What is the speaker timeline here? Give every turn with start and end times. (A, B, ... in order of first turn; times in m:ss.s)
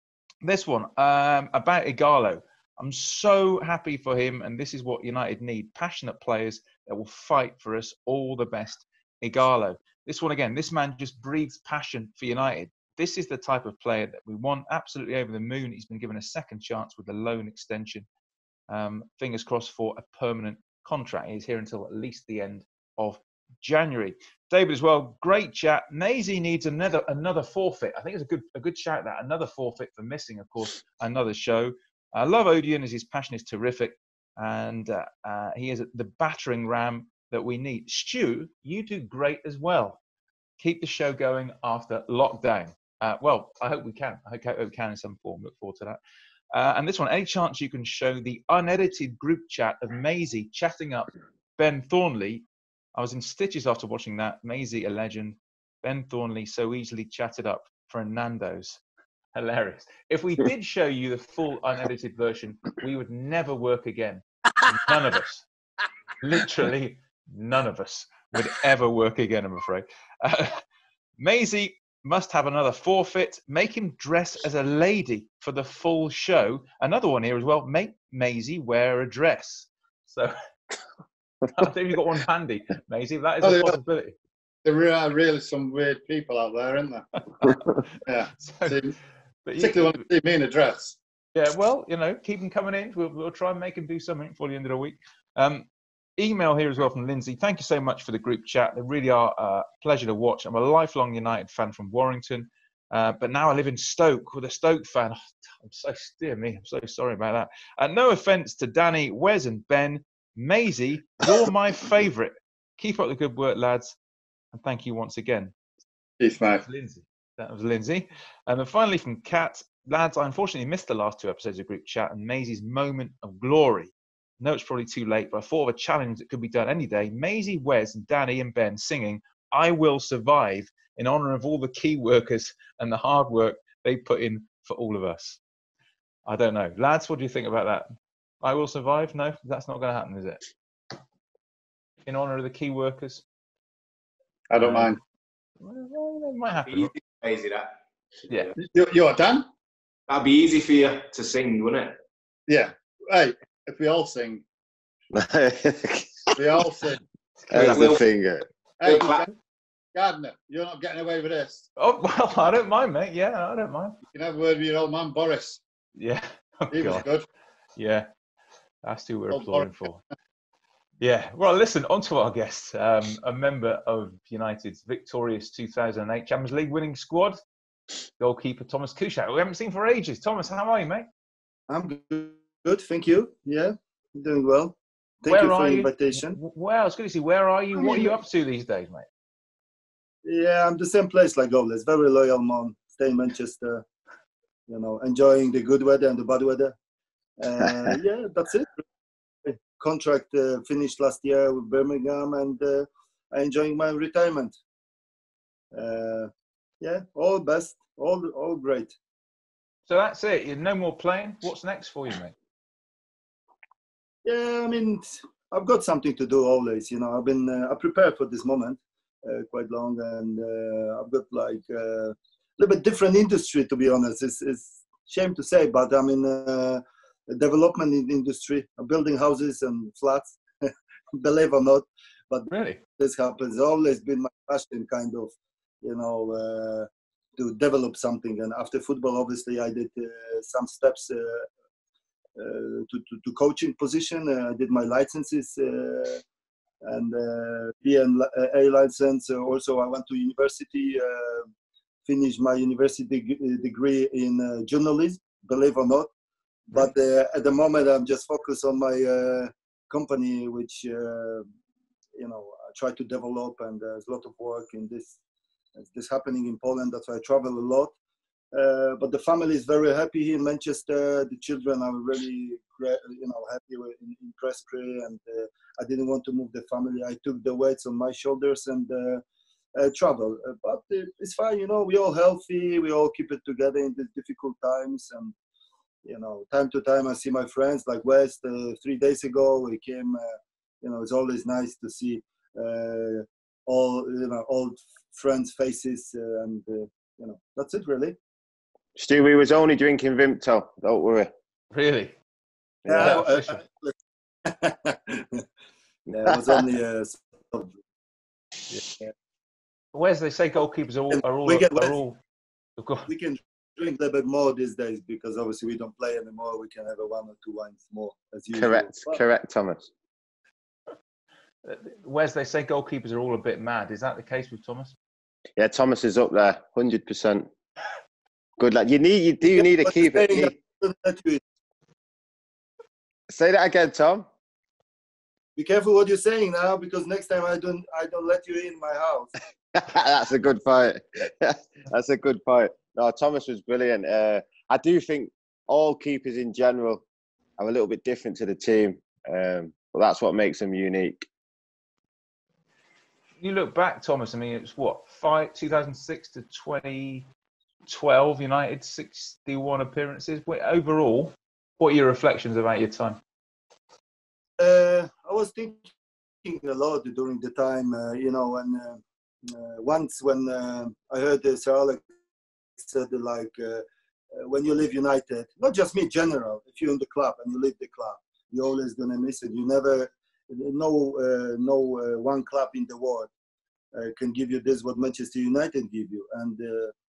0:00.4-0:18.0 A
0:18.7-0:40.0 A
0:40.6-0:46.0 A
0:46.5-0:58.8 A
0:59.3-1:05.4 A
1:06.2-1:10.6 A
1:11.2-1:20.3 A
1:21.5-1:24.1 A
1:23.4-1:23.8 B
1:24.6-1:27.0 B
1:28.0-1:29.0 B
1:28.4-1:28.8 A
1:29.4-1:30.0 A
1:29.6-1:31.0 B
1:31.3-1:54.0 A
1:54.5-1:55.5 A
1:56.2-1:56.6 B
1:56.6-2:15.4 A
2:16.2-2:17.9 A
2:18.4-2:20.4 A
2:22.0-2:23.2 A
2:24.5-2:25.0 B
2:24.6-2:24.9 A
2:25.6-2:26.9 A
2:26.7-2:27.7 C
2:28.6-2:29.4 B
2:30.1-2:32.0 C
2:32.5-2:34.4 B
2:35.1-2:36.3 D
2:36.4-2:37.0 B
2:37.5-2:37.9 A
2:37.5-2:38.5 D
2:37.5-2:38.0 C
2:38.8-2:39.3 B
2:38.8-2:39.3 C
2:39.9-2:41.6 B
2:41.8-2:44.0 A
2:44.1-2:45.6 B
2:46.0-2:47.0 A
2:46.7-2:47.2 B
2:47.8-2:48.1 A
2:48.8-2:50.0 A
2:49.3-2:49.7 B
2:51.0-2:57.4 A
2:58.2-3:01.1 A
3:01.7-3:06.4 E
3:05.3-3:09.0 A
3:07.8-3:08.2 E
3:10.2-3:13.8 E
3:14.7-3:16.8 E
3:17.4-3:18.8 E
3:19.4-3:24.6 E
3:25.7-3:28.9 E
3:29.9-3:32.3 A
3:34.2-4:01.5 E
3:52.5-3:52.8 A
4:02.4-4:06.2 E
4:06.8-4:11.5 E
4:12.0-4:16.1 E
4:16.7-4:21.5 E
4:22.2-4:25.2 E
4:25.8-4:27.9 E
4:28.5-4:39.2 E
4:39.7-4:45.3 E
4:46.0-4:50.2 E
4:50.8-4:58.2 E
4:59.0-5:01.3 D
5:01.7-5:02.1 A
5:02.8-5:03.2 D
5:02.9-5:05.4 E
5:03.0-5:03.5 A
5:06.1-5:07.8 E
5:09.9-5:12.2 A
5:11.1-5:11.9 E
5:12.8-5:13.1 A
5:13.1-5:19.2 E
5:18.5-5:19.9 D
5:21.6-5:24.9 A
5:25.6-5:27.5 D
5:28.6-5:30.5 D
5:29.4-5:31.4 E
5:33.3-5:34.3 D
5:35.6-5:39.3 E
5:39.7-5:47.0 D
5:47.6-5:51.3 D
5:53.4-5:57.2 A
5:57.9-6:03.2 A
6:04.6-6:05.9 E
6:06.4-6:12.0 E
6:12.8-6:23.3 E
6:23.9-6:26.9 E